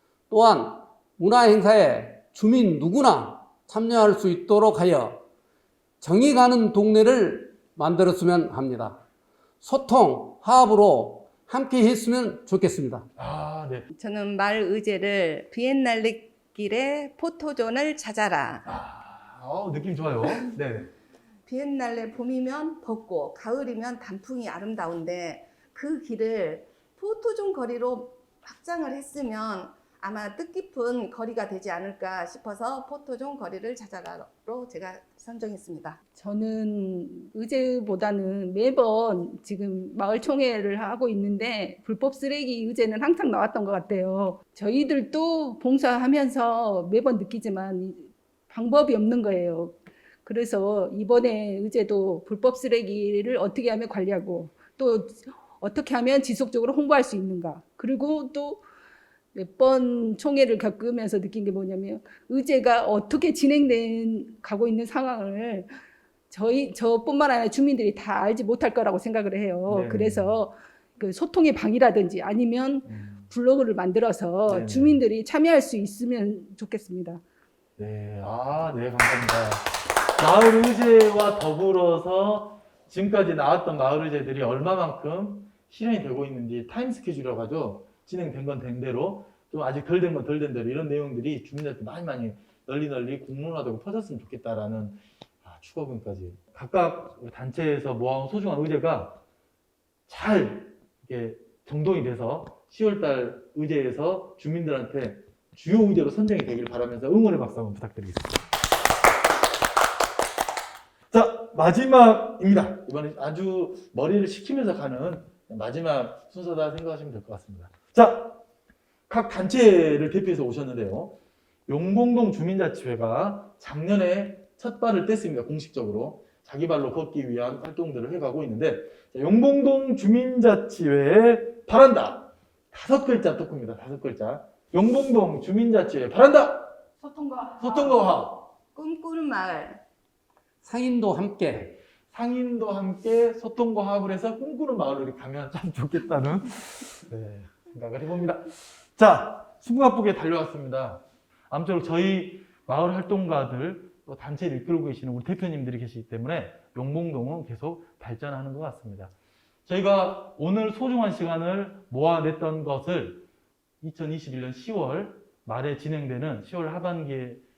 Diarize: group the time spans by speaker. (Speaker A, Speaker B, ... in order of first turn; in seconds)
Speaker A: 0.3-5.2, 6.0-9.0, 9.6-13.1, 140.6-141.7
Speaker B: 13.2-13.9, 18.6-20.9, 69.7-70.4, 72.9-73.2, 74.5-75.0, 77.8-99.2, 100.1-108.4, 111.1-118.4, 119.1-136.8, 137.6-138.4, 142.1-159.1, 159.7-163.3, 163.8-167.4
Speaker C: 13.9-18.7, 21.5-36.0, 138.8-139.8
Speaker D: 36.1-58.6, 59.3-65.7, 66.3-77.2, 137.0-138.1